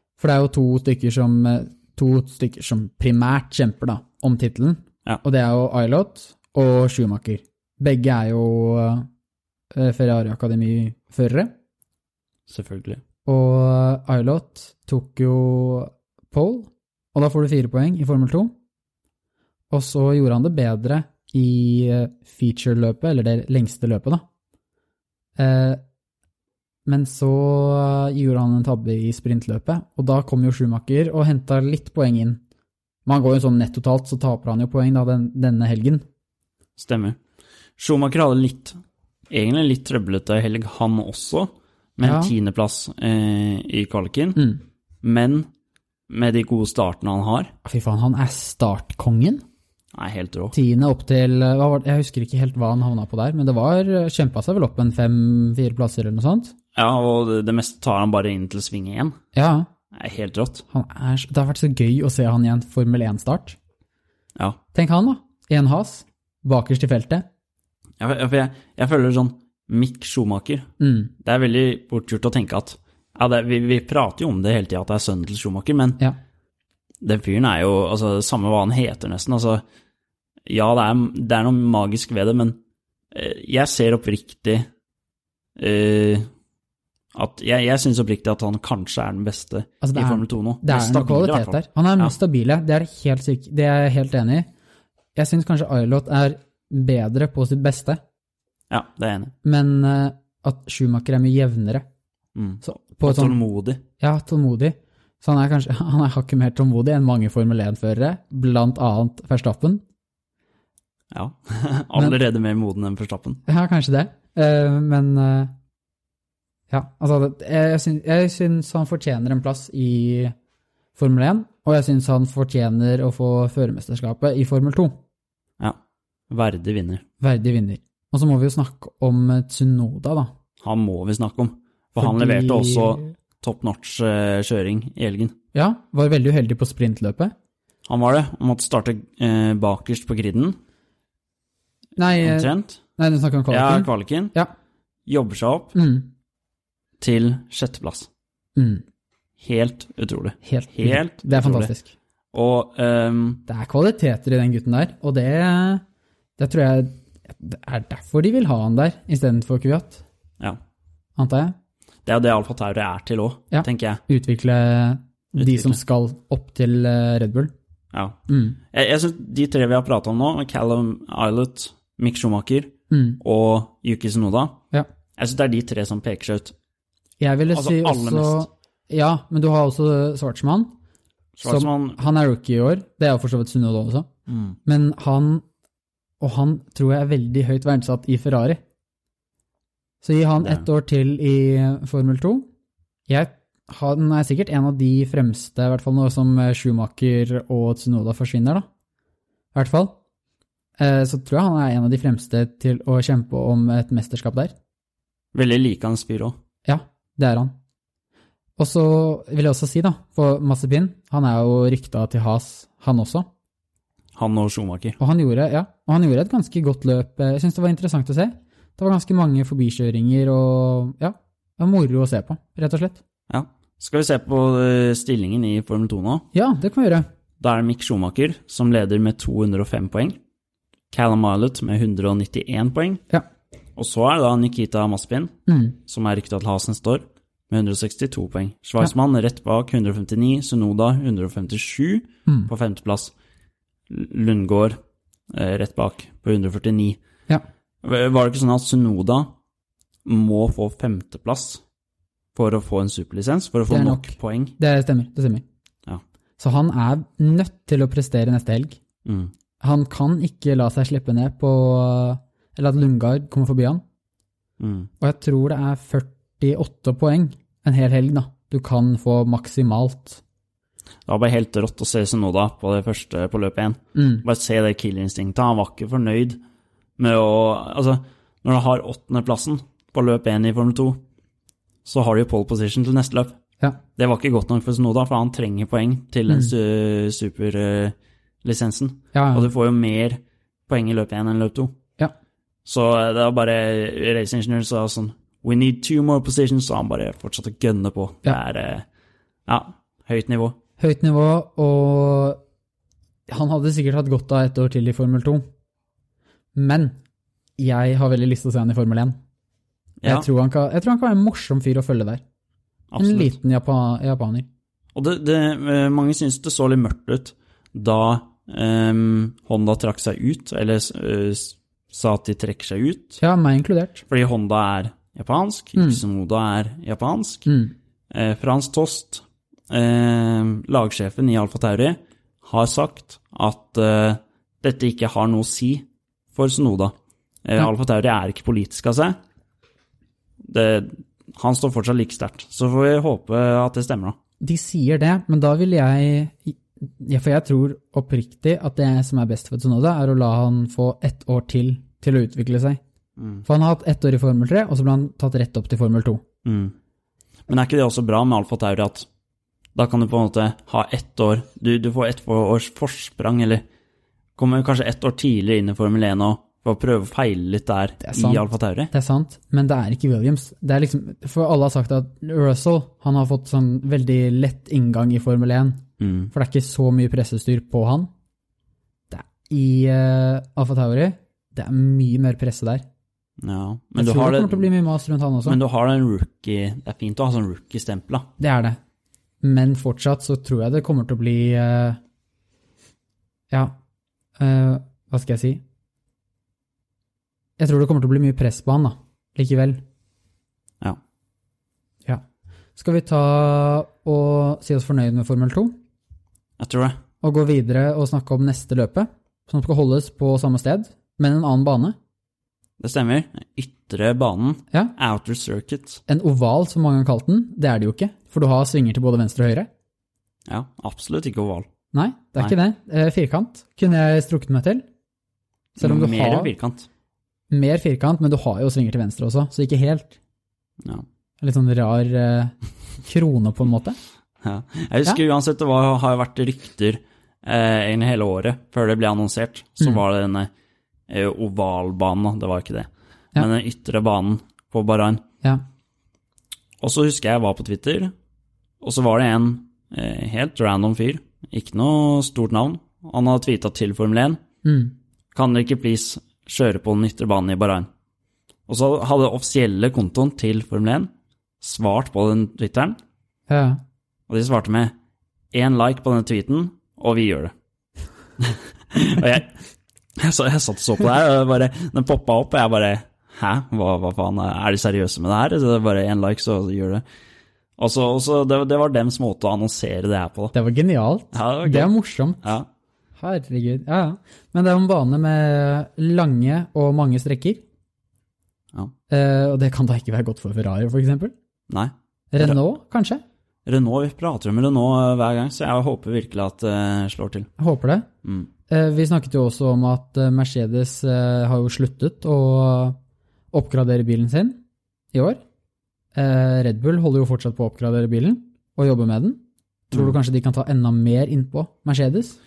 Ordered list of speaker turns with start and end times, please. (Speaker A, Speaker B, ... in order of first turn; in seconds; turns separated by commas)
Speaker A: 0.2-9.1, Speaker A: 9.7-11.5, Speaker B: 12.5-13.0, Speaker A: 13.2-18.5, Speaker A: 19.7-24.2, Speaker A: 25.4-25.8, Speaker A: 26.9-32.4, Speaker A: 33.0-36.0, Speaker B: 36.8-37.2, Speaker B: 37.8-38.8, Speaker B: 39.3-44.4, Speaker A: 42.0-42.3, Speaker A: 44.4-44.6, Speaker B: 45.0-45.5, Speaker B: 46.1-47.5, Speaker A: 47.6-49.4, Speaker B: 49.9-50.5, Speaker A: 50.5-56.5, Speaker B: 56.7-59.2, Speaker A: 59.3-59.7, Speaker B: 59.9-60.6, Speaker A: 60.7-63.6, Speaker A: 64.7-67.2, Speaker B: 68.0-70.7, Speaker A: 70.8-71.1, Speaker B: 71.2-76.0, Speaker B: 77.0-79.6, Speaker B: 80.5-82.6, Speaker B: 83.1-84.7, Speaker B: 85.6-86.3, Speaker B: 87.1-92.1, Speaker A: 89.8-94.5, Speaker A: 95.1-98.0, Speaker B: 98.7-99.3, Speaker A: 99.4-101.8, Speaker B: 102.3-103.8, Speaker A: 102.6-103.4, Speaker A: 104.0-109.8, Speaker B: 111.1-113.4, Speaker A: 113.5-115.5, Speaker A: 116.7-120.3, Speaker A: 121.0-125.0, Speaker B: 126.3-127.0, Speaker A: 127.2-130.3, Speaker B: 130.6-135.3, Speaker A: 132.0-133.1, Speaker A: 135.5-137.3, Speaker B: 137.8-140.6, Speaker A: 141.9-144.5, Speaker B: 142.2-142.8, Speaker B: 143.5-144.3, Speaker B: 145.1-145.7, Speaker A: 145.7-146.1, Speaker B: 147.0-148.1, Speaker A: 148.6-148.8, Speaker B: 149.4-151.7, Speaker A: 150.4-151.9, Speaker B: 152.3-153.4, Speaker A: 153.5-155.8, Speaker A: 156.4-160.0, Speaker A: 161.2-161.5, Speaker B: 162.0-164.0, Speaker A: 163.5-167.5, Speaker B: 165.4-165.8, Speaker B: 167.9-168.2, Speaker A: 168.3-168.6, Speaker B: 168.7-174.6, Speaker A: 172.9-173.2, Speaker B: 175.2-176.5, Speaker A: 177.2-180.7, Speaker B: 177.5-178.4, Speaker B: 181.3-182.0, Speaker A: 181.4-184.1, Speaker B: 184.3-184.6, Speaker A: 184.6-185.4, Speaker A: 186.2-188.6, Speaker A: 190.0-192.5, Speaker A: 193.1-198.7, Speaker A: 199.5-199.9, Speaker A: 200.8-204.5, Speaker B: 205.3-206.3, Speaker A: 206.7-207.5, Speaker A: 208.6-213.3, Speaker B: 214.1-215.0, Speaker A: 215.0-223.0, Speaker B: 223.3-226.2, Speaker A: 226.3-227.1, Speaker B: 227.4-230.2, Speaker B: 230.9-233.0, Speaker B: 233.8-243.1, Speaker A: 235.5-235.8, Speaker B: 243.9-244.8, Speaker B: 245.3-247.0, Speaker B: 247.8-249.3, Speaker B: 250.0-251.6, Speaker B: 252.3-254.5, Speaker A: 253.7-255.4, Speaker A: 256.4-258.8, Speaker B: 259.0-259.3, Speaker A: 259.6-263.8, Speaker B: 264.6-264.9, Speaker A: 265.0-270.2, Speaker B: 271.1-276.4, Speaker A: 273.9-274.2, Speaker B: 277.0-281.0, Speaker B: 281.8-283.4, Speaker B: 283.9-291.7, Speaker A: 289.1-289.5, Speaker B: 292.6-298.9, Speaker B: 299.4-300.6, Speaker A: 300.8-302.4, Speaker A: 303.3-305.4, Speaker A: 306.5-307.0, Speaker A: 307.6-309.1, Speaker B: 310.0-310.3, Speaker A: 310.0-312.2, Speaker B: 312.9-313.3, Speaker A: 313.0-314.5, Speaker B: 314.9-323.2, Speaker A: 323.2-324.0, Speaker B: 324.1-327.5, Speaker A: 325.8-326.0, Speaker A: 327.4-327.7, Speaker B: 328.1-339.1, Speaker B: 340.4-344.2, Speaker A: 344.4-352.8, Speaker B: 353.2-353.4, Speaker A: 353.4-356.2, Speaker B: 356.4-356.7, Speaker B: 357.5-359.1, Speaker B: 359.7-363.6, Speaker B: 364.4-368.9, Speaker A: 368.0-378.1, Speaker B: 376.0-376.3, Speaker A: 379.1-382.8, Speaker B: 383.4-384.7, Speaker A: 383.9-385.6, Speaker B: 385.4-388.3, Speaker A: 388.4-388.8, Speaker A: 389.4-392.0, Speaker A: 394.4-395.6, Speaker A: 397.6-399.8, Speaker A: 402.8-405.8, Speaker B: 406.6-407.0, Speaker A: 407.2-411.9, Speaker B: 412.8-416.0, Speaker A: 416.1-419.7, Speaker B: 420.5-421.7, Speaker A: 421.9-424.8, Speaker B: 425.8-426.9, Speaker A: 425.8-426.5, Speaker A: 427.5-430.2, Speaker B: 430.8-431.1, Speaker A: 431.4-434.0, Speaker B: 434.4-440.5, Speaker B: 441.1-445.2, Speaker B: 446.8-448.1, Speaker B: 448.8-454.4, Speaker A: 454.6-454.9, Speaker B: 455.3-457.9, Speaker B: 458.7-463.0, Speaker A: 463.5-463.8, Speaker B: 464.3-464.9, Speaker B: 465.5-467.5, Speaker B: 468.4-469.5, Speaker B: 470.2-477.0, Speaker B: 477.8-480.5, Speaker A: 480.5-482.6, Speaker B: 481.3-482.7, Speaker A: 483.2-487.6, Speaker A: 489.1-491.3, Speaker B: 491.7-492.6, Speaker A: 492.3-493.2, Speaker B: 493.6-497.5, Speaker A: 497.6-498.1, Speaker B: 498.2-498.5, Speaker A: 498.7-503.0, Speaker A: 503.5-504.6, Speaker A: 505.1-505.4, Speaker A: 506.1-512.4, Speaker B: 509.9-510.2